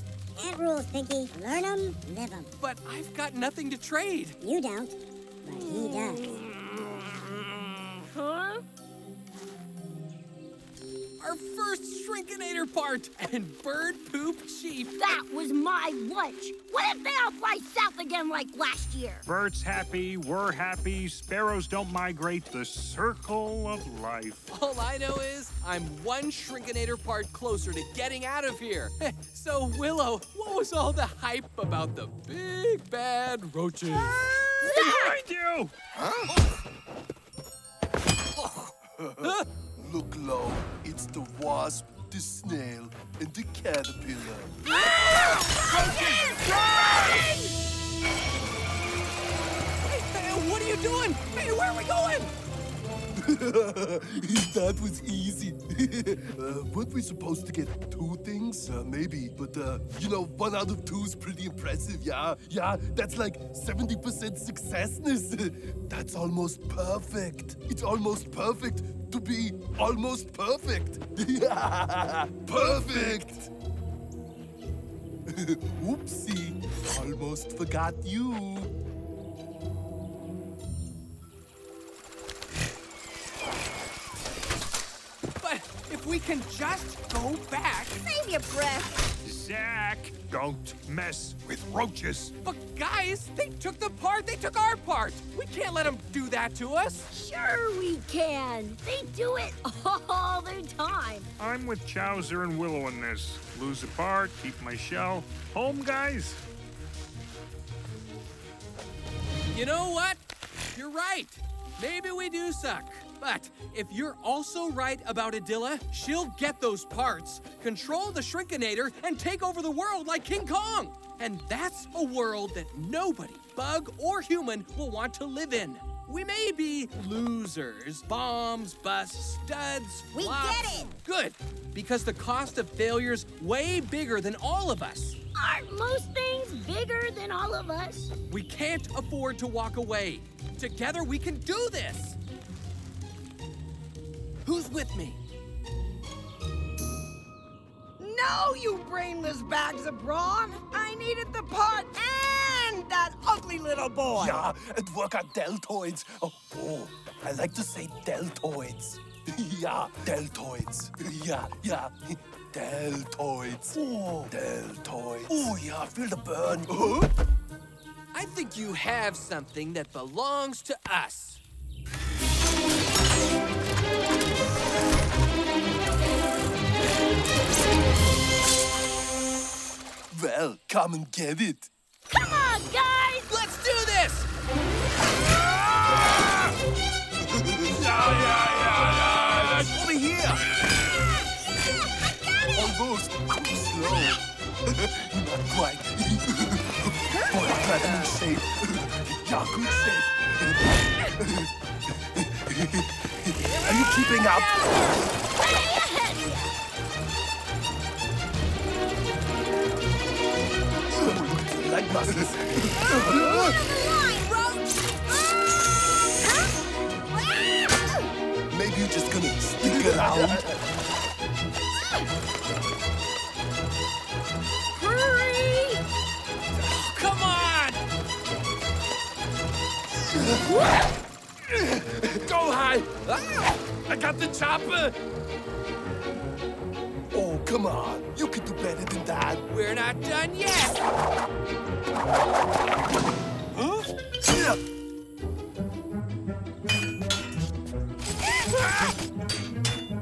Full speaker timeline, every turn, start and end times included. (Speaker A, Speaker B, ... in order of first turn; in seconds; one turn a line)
Speaker A: 0.4-2.5
Speaker B: 2.6-4.4
Speaker A: 4.4-6.4
Speaker C: 8.1-8.6
Speaker B: 11.2-15.0
Speaker C: 15.0-19.2
Speaker D: 19.2-24.5
Speaker B: 24.5-34.9
Speaker D: 34.7-35.7
Speaker B: 38.4-38.7
Speaker E: 39.0-44.5
Speaker C: 44.6-47.2
Speaker B: 45.1-47.2
Speaker B: 49.9-52.3
Speaker E: 53.2-73.5
Speaker E: 75.3-78.7
Speaker B: 85.4-88.0
Speaker F: 88.0-89.0
Speaker D: 89.2-92.3
Speaker B: 92.4-97.1
Speaker C: 97.1-101.3
Speaker D: 101.4-106.4
Speaker B: 109.5-110.2
Speaker B: 110.8-135.2
Speaker F: 130.1-130.9
Speaker C: 135.3-138.1
Speaker B: 138.3-142.2
Speaker B: 144.5-145.2
Speaker G: 148.0-154.5
Speaker E: 154.1-167.1
Speaker B: 168.1-171.4
Speaker E: 180.1-181.7
Speaker C: 182.1-183.3
Speaker B: 183.3-184.3
Speaker E: 187.5-189.9
Speaker B: 189.4-190.3
Speaker E: 192.5-201.5
Speaker G: 197.4-197.7
Speaker E: 202.1-205.0
Speaker B: 203.5-204.3
Speaker C: 205.3-206.5
Speaker E: 210.9-213.6
Speaker F: 212.8-214.5
Speaker F: 216.2-216.6
Speaker F: 217.1-218.0
Speaker E: 218.5-220.5
Speaker C: 224.8-225.8
Speaker B: 226.6-227.8
Speaker E: 231.5-233.0
Speaker B: 233.1-233.5
Speaker E: 233.9-234.9
Speaker E: 237.1-239.4
Speaker B: 239.5-240.8
Speaker E: 244.2-244.6
Speaker B: 248.4-248.9